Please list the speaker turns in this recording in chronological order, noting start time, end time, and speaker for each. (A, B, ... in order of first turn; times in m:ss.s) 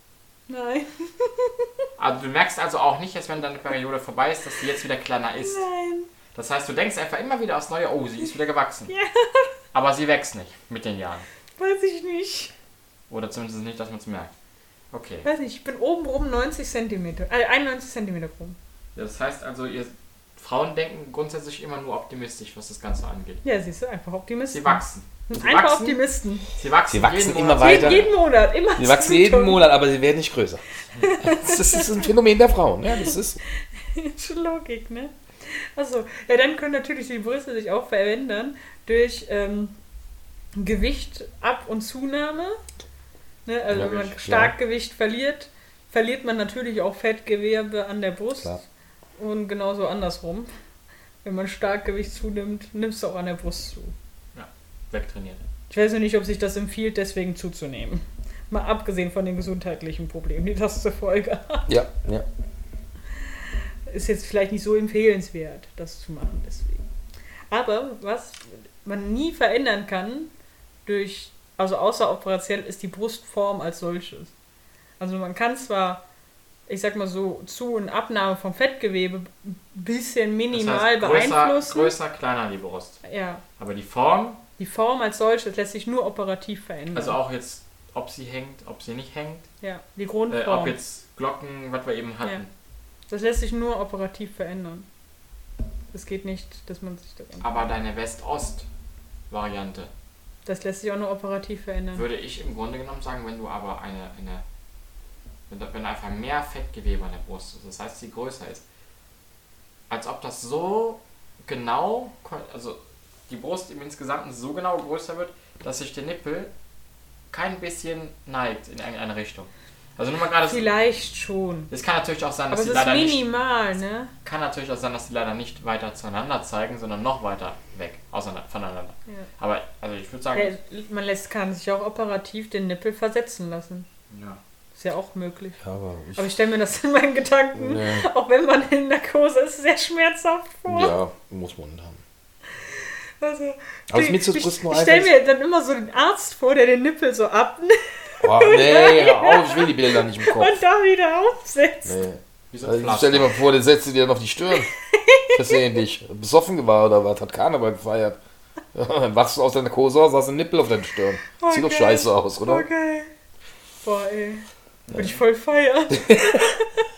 0:00.5-0:01.7 A
0:02.0-0:05.6 B
0:05.4-0:06.1 A
0:06.3-0:08.9 B
0:08.9-0:09.5 A
0:09.7-0:11.2 B
0:11.6-0:12.5 A
0:13.1-0:14.3 B
0:14.9-0:15.3 B
0:15.2-0:18.6 A
0:18.9-0:23.4 B
0:23.4-0:26.5 A
0:24.5-0:26.0 B
0:26.5-0:28.1 B
0:26.9-0:28.1 C
0:27.6-0:29.6 A
0:28.8-0:30.6 C
0:31.0-0:32.0 A
0:31.2-0:33.4 C
0:33.8-0:39.7 A
0:40.5-0:42.6 A
0:43.4-0:48.6 A
0:43.7-0:44.5 C
0:49.2-0:50.5 A
0:51.2-0:53.9 A
0:54.3-0:55.4 B
0:55.7-1:01.7 A
1:01.7-1:02.2 C
1:03.9-1:06.8 A
1:07.5-1:10.3 A
1:10.8-1:14.3 A
1:15.0-1:16.0 A
1:16.7-1:21.9 A
1:20.5-1:23.0 B
1:23.0-1:23.4 A
1:23.6-1:24.4 B
1:24.6-1:27.2 A
1:26.9-1:29.5 B
1:29.6-1:30.8 A
1:30.3-1:32.5 B
1:33.1-1:34.9 A
1:35.9-1:37.6 A
1:37.4-1:38.6 B
1:39.3-1:39.9 B
1:40.4-1:42.0 A
1:41.9-1:44.4 B
1:45.5-1:48.6 B
1:49.9-1:56.5 B
1:57.3-2:00.7 B
2:00.4-2:01.7 A
2:01.7-2:03.2 B
2:02.5-2:04.1 A
2:04.2-2:10.5 B
2:10.3-2:13.8 A
2:14.1-2:14.4 B
2:14.7-2:15.6 A
2:15.6-2:16.3 C
2:16.2-2:20.9 A
2:17.5-2:18.1 C
2:20.7-2:22.0 C
2:22.8-2:32.0 A
2:23.9-2:25.1 C
2:28.2-2:30.6 C
2:31.8-2:34.7 C
2:32.5-2:33.3 B
2:34.7-2:35.6 A
2:35.3-2:38.2 C
2:38.7-2:42.6 C
2:41.4-2:43.1 A
2:43.8-2:46.8 A
2:44.9-2:45.2 B